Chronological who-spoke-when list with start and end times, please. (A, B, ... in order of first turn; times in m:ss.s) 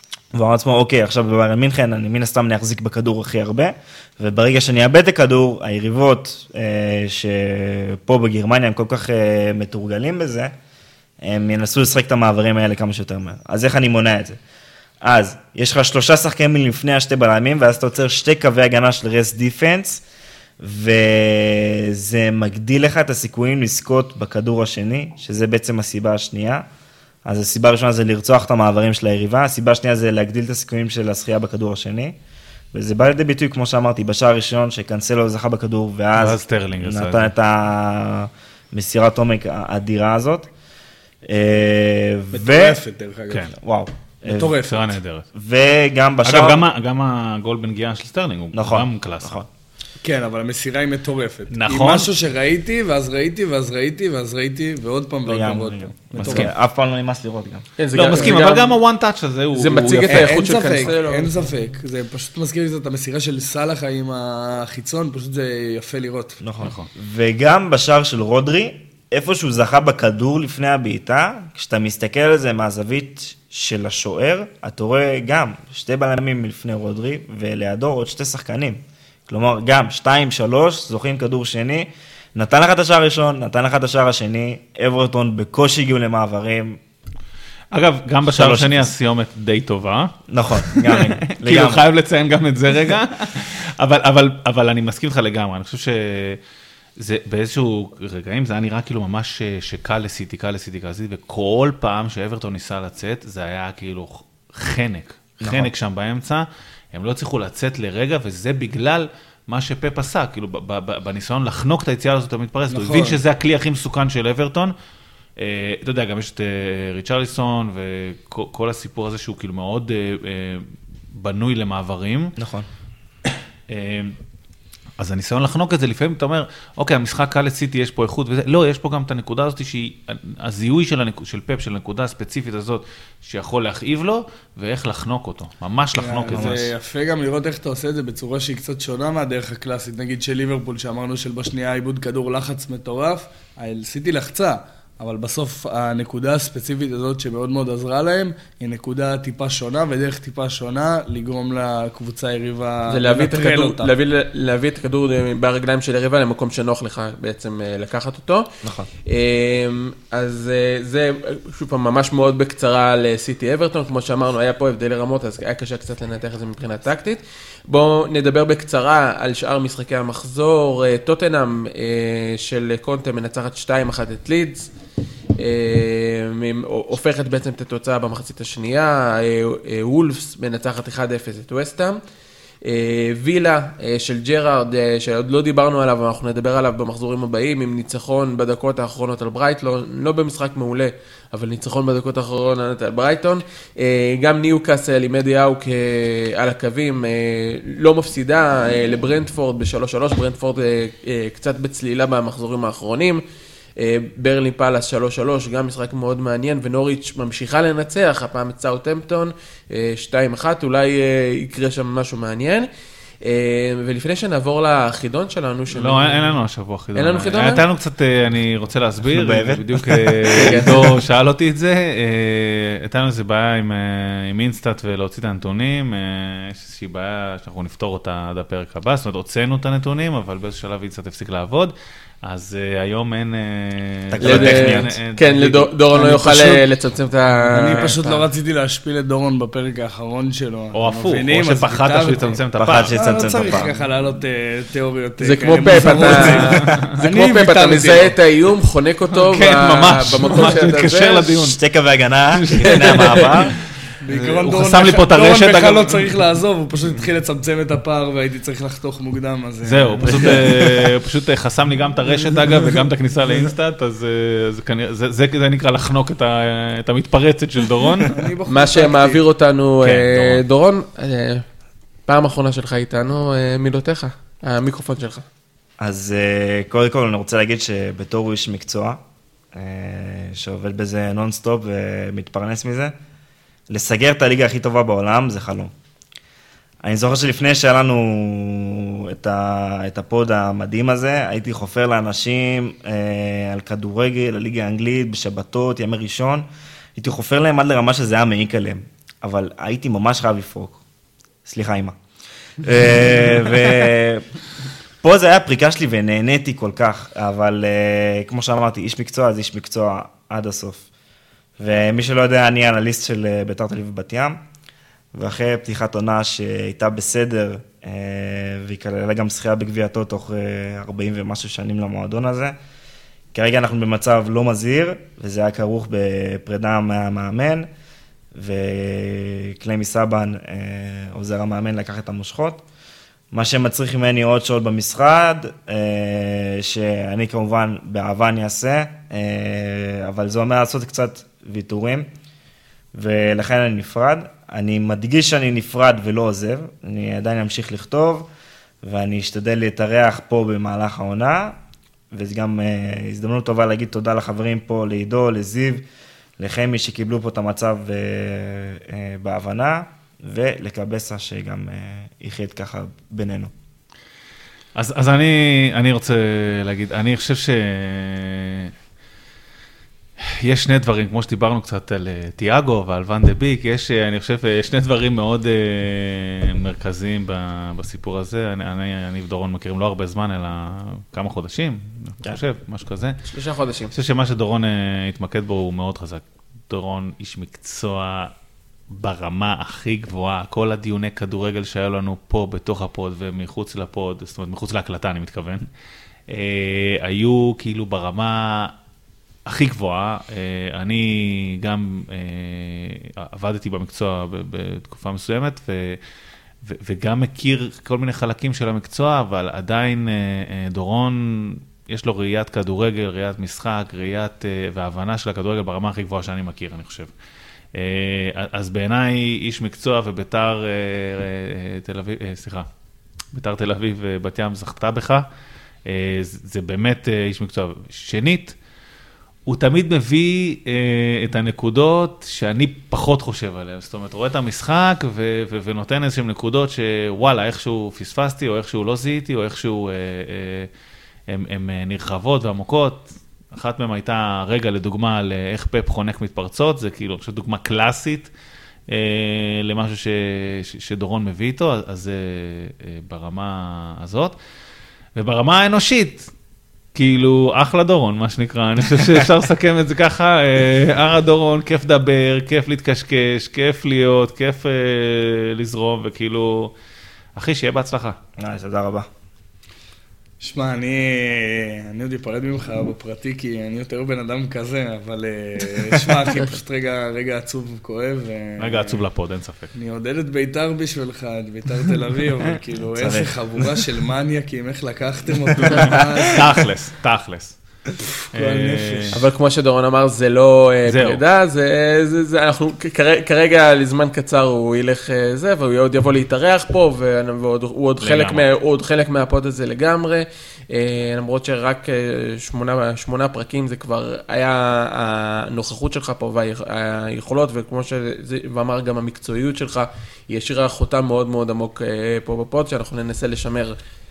0:00.3-0:10.5 A
0:11.2-0:14.4 A
0:15.0-0:20.0 A
0:20.6-0:26.6 A
0:27.2-0:32.2 A
0:32.7-0:40.5 A
0:36.2-0:37.3 B
0:41.2-0:42.8 A
0:42.3-0:43.5 C
0:43.6-0:44.5 A
0:44.2-0:44.9 C
0:44.6-0:45.2 B
0:45.3-0:46.6 A
0:46.2-0:49.4 B
0:48.5-0:49.5 A
0:50.0-0:56.5 C
0:51.5-0:52.1 B
0:55.3-0:57.6 A
0:56.2-0:56.5 B
0:57.8-0:58.7 D
0:57.9-1:00.4 B
0:59.5-1:01.3 D
1:00.1-1:06.4 C
1:06.4-1:26.8 A
1:06.6-1:06.9 B
1:27.7-1:36.4 B
1:28.3-1:28.9 A
1:30.3-1:31.8 A
1:37.0-1:54.7 B
1:45.4-1:45.7 A
1:52.7-1:53.2 C
1:55.4-2:02.3 B
2:02.4-2:02.7 A
2:03.7-2:04.2 B
2:05.0-2:16.7 B
2:16.0-2:33.9 C
2:16.3-2:16.6 A
2:32.9-2:38.5 D
2:38.6-2:38.9 A
2:39.0-2:54.7 D
2:55.4-3:02.0 D
3:02.6-3:23.2 D
3:23.8-3:32.7 D
3:33.2-3:36.3 D
3:35.7-3:55.7 B
3:36.9-3:37.6 D
3:39.1-3:40.9 A
3:40.4-3:40.8 D
3:54.1-3:54.9 A
3:54.2-3:58.0 D
3:55.9-3:56.6 C
3:57.5-4:08.1 C
3:57.7-3:58.2 B
4:00.7-4:03.7 B
4:02.6-4:03.7 A
4:05.2-4:11.3 D
4:06.1-4:06.8 B
4:09.1-4:11.6 B
4:11.4-4:13.5 A
4:12.3-4:13.5 B
4:12.6-4:13.3 D
4:14.0-4:20.7 C
4:14.0-4:16.1 B
4:19.6-4:28.3 B
4:28.0-4:29.2 C
4:28.5-4:31.4 D
4:29.8-4:30.4 B
4:32.1-4:35.2 D
4:35.8-4:39.0 A
4:39.5-4:42.9 A
4:43.7-4:45.7 A
4:46.8-5:00.8 A
5:01.4-5:02.0 A
5:02.6-5:04.2 A
5:05.0-5:10.8 A
5:11.6-5:14.4 A
5:15.1-5:22.5 A
5:23.3-5:27.7 A
5:28.3-5:32.6 A
5:33.3-5:42.1 A
5:42.9-5:48.3 A
5:48.8-5:51.6 A
5:52.1-5:55.8 A
5:56.4-6:03.5 A
6:04.7-6:08.7 B
6:10.2-6:23.2 B
6:23.3-6:23.9 D
6:23.9-6:28.3 B
6:28.9-6:35.7 B
6:36.3-6:38.7 B
6:39.4-6:46.0 B
6:46.6-6:57.1 B
6:57.7-7:02.7 B
7:03.3-7:05.2 B
7:05.8-7:08.6 B
7:09.4-7:20.7 B
7:21.3-7:28.3 B
7:28.9-7:34.4 B
7:35.2-7:36.3 B
7:36.9-7:46.7 B
7:47.4-7:48.2 B
7:48.4-7:49.1 A
7:50.4-7:59.0 C
7:58.6-7:59.7 B
7:59.7-8:06.6 C
8:02.9-8:03.4 A
8:06.3-8:07.6 B
8:08.0-8:09.2 C
8:08.3-8:09.2 B
8:09.1-8:33.8 D
8:10.9-8:11.2 B
8:18.0-8:18.4 B